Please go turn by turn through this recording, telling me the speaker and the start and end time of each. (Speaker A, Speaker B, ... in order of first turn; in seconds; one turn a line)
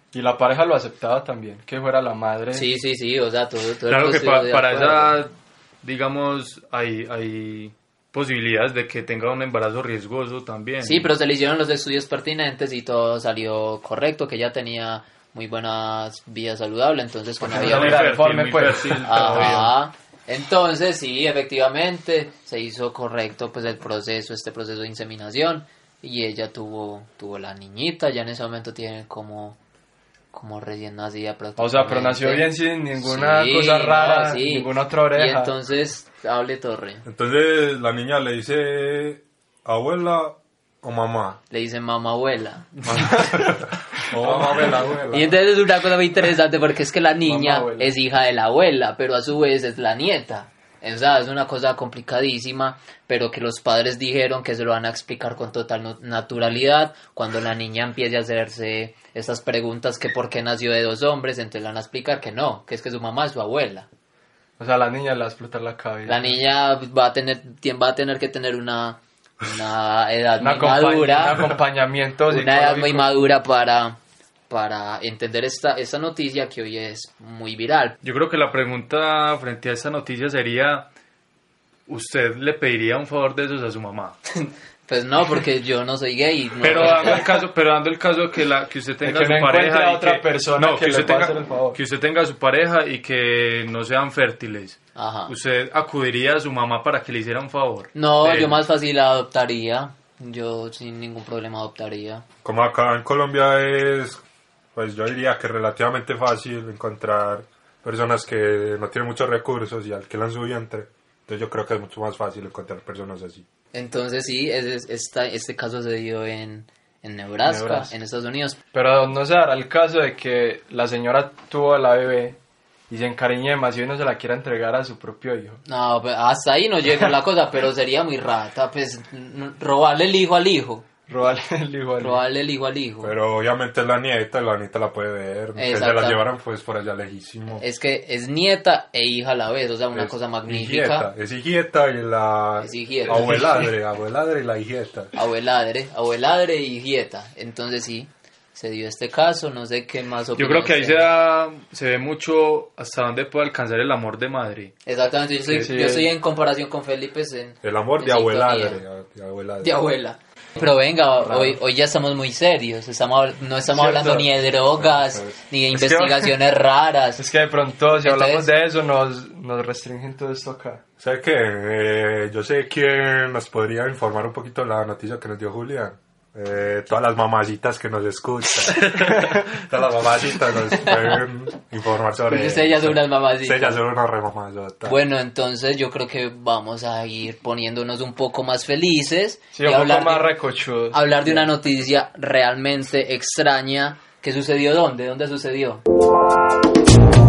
Speaker A: 0.1-2.7
Speaker B: 2.5-5.2
Speaker C: 3.9-11.1
Speaker B: 10.8-18.1
Speaker A: 17.4-19.6
Speaker C: 17.5-19.7
Speaker B: 19.1-29.6
Speaker B: 30.3-37.0
Speaker A: 31.6-35.5
Speaker D: 37.0-41.4
Speaker B: 41.5-43.2
Speaker D: 42.9-45.4
Speaker A: 43.1-43.5
Speaker A: 44.2-45.1
Speaker B: 45.1-63.9
Speaker A: 47.2-47.9
Speaker A: 64.6-66.4
Speaker B: 66.1-71.6
Speaker A: 70.4-73.3
Speaker B: 72.3-74.0
Speaker B: 74.5-78.0
Speaker C: 78.0-80.9
Speaker C: 81.9-84.2
Speaker B: 84.3-87.3
Speaker C: 86.6-98.6
Speaker A: 89.0-91.8
Speaker B: 95.0-95.3
Speaker B: 97.9-102.2
Speaker D: 102.4-104.2
Speaker D: 104.8-113.5
Speaker B: 113.7-118.6
Speaker A: 117.5-117.9
Speaker A: 118.7-122.4
Speaker A: 122.9-125.6
Speaker B: 125.7-130.8
Speaker A: 131.1-132.2
Speaker B: 132.0-133.1
Speaker D: 133.0-137.6
Speaker B: 135.6-136.2
Speaker B: 137.6-141.1
Speaker D: 139.9-145.1
Speaker B: 142.6-143.5
Speaker B: 145.1-151.1
Speaker C: 150.4-154.7
Speaker B: 154.8-158.8
Speaker A: 155.5-156.1
Speaker D: 157.6-159.8
Speaker B: 159.6-167.2
Speaker A: 161.2-161.6
Speaker A: 163.7-164.3
Speaker D: 164.8-165.4
Speaker A: 165.7-166.3
Speaker A: 167.2-170.8
Speaker B: 168.0-168.5
Speaker D: 171.0-185.0
Speaker C: 178.8-179.3
Speaker B: 180.9-181.2
Speaker B: 182.3-183.8
Speaker B: 184.9-190.3
Speaker A: 189.5-191.5
Speaker B: 190.9-195.8